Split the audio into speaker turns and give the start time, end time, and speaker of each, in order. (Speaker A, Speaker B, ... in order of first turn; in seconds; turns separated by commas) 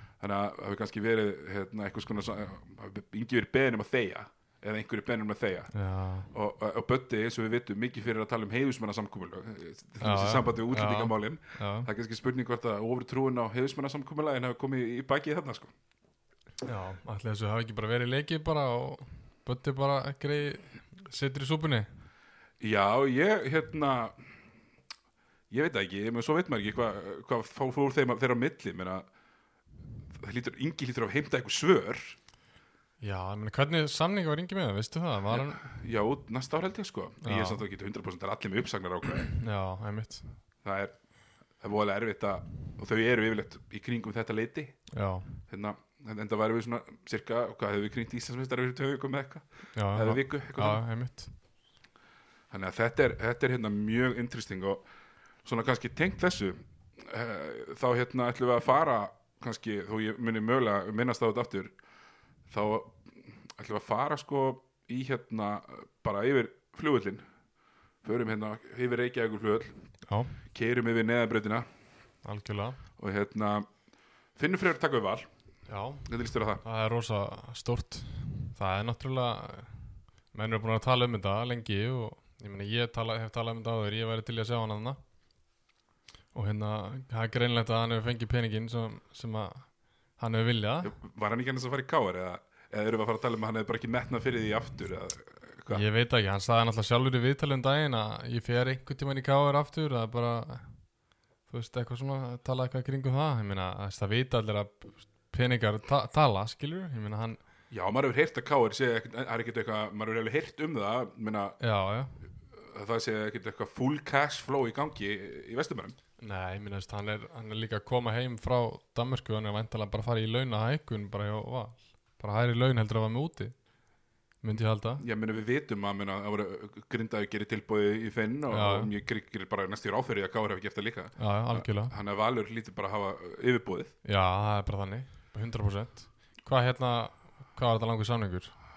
Speaker A: 0.2-5.7, Speaker B: 5.7-6.3, Speaker A: 6.3-15.7, Speaker B: 10.0-11.9, Speaker B: 16.6-21.9, Speaker A: 22.6-24.1, Speaker A: 25.5-29.1, Speaker A: 30.1-32.1, Speaker B: 33.0-35.6, Speaker A: 35.3-39.3, Speaker B: 37.2-37.6, Speaker B: 39.3-40.2, Speaker A: 40.6-40.9, Speaker A: 41.6-44.8, Speaker B: 44.9-45.3, Speaker A: 45.5-50.8, Speaker B: 49.7-51.3, Speaker A: 52.5-54.8, Speaker A: 55.4-61.7, Speaker A: 62.5-67.2, Speaker A: 68.0-69.7, Speaker B: 70.1-70.4, Speaker A: 70.5-71.7, Speaker B: 72.2-72.8, Speaker A: 73.0-73.7, Speaker A: 74.3-75.3, Speaker B: 75.7-76.1, Speaker A: 76.0-76.6, Speaker B: 76.6-79.8, Speaker B: 80.3-85.0, Speaker B: 86.3-90.9, Speaker A: 90.8-95.8, Speaker B: 95.7-100.7, Speaker B: 101.5-107.4, Speaker A: 107.7-111.5, Speaker B: 111.6-112.2, Speaker A: 112.5-116.0, Speaker B: 116.2-123.5, Speaker B: 124.4-125.0, Speaker A: 125.0-133.9, Speaker B: 128.5-128.9, Speaker B: 131.2-131.9, Speaker B: 134.0-138.5